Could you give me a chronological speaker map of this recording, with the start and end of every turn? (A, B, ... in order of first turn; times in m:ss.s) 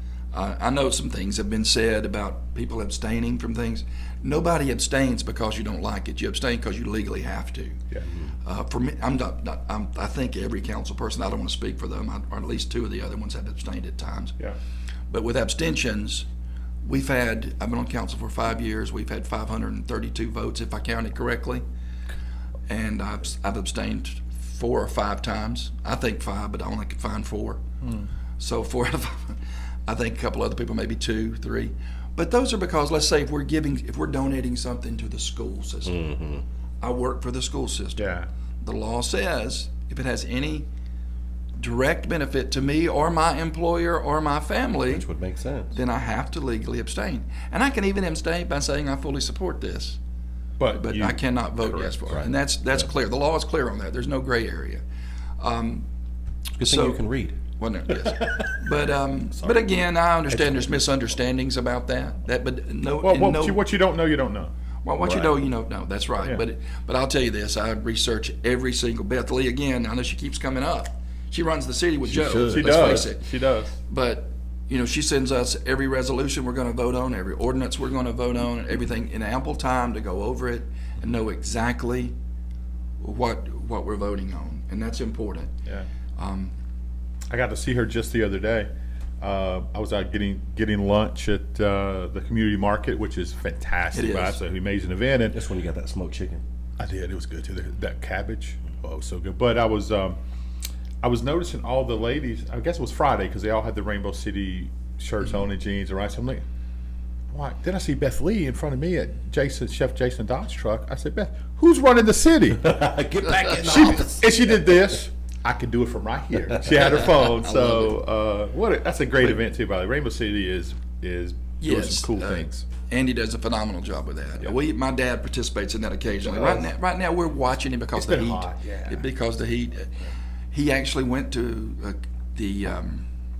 0:00.3-0:07.8 A
0:08.4-0:14.4 A
0:15.1-0:16.3 A
0:16.8-0:21.6 A
0:22.7-0:27.6 A
0:27.8-0:28.1 B
0:28.4-0:36.0 A
0:35.9-0:36.4 C
0:36.8-0:38.1 A
0:38.0-0:38.3 B
0:38.6-0:40.7 A
0:41.6-0:45.1 A
0:44.9-0:45.8 C
0:45.7-0:50.0 A
0:50.6-0:52.3 B
0:50.7-0:54.8 A
0:52.1-0:52.8 C
0:55.4-0:55.9 A
0:56.6-0:57.4 C
0:56.6-0:57.0 A
0:57.6-1:03.6 A
0:58.1-0:58.5 C
0:59.4-0:59.7 C
1:00.3-1:00.7 B
1:03.0-1:04.5 B
1:04.8-1:13.2 A
1:05.0-1:05.3 B
1:12.0-1:13.1 C
1:12.4-1:13.8 B
1:13.8-1:22.2 A
1:23.0-1:25.5 A
1:26.2-1:26.5 A
1:27.3-1:28.7 B
1:29.2-1:35.4 B
1:33.9-1:34.4 A
1:35.3-1:36.4 C
1:36.8-1:40.2 B
1:41.0-1:46.4 B
1:47.3-1:52.8 B
1:52.6-1:54.4 C
1:53.2-1:53.8 A
1:53.5-2:02.6 B
1:56.9-1:57.9 A
2:01.6-2:10.0 A
2:06.1-2:06.7 B
2:08.0-2:09.1 B
2:10.5-2:13.1 A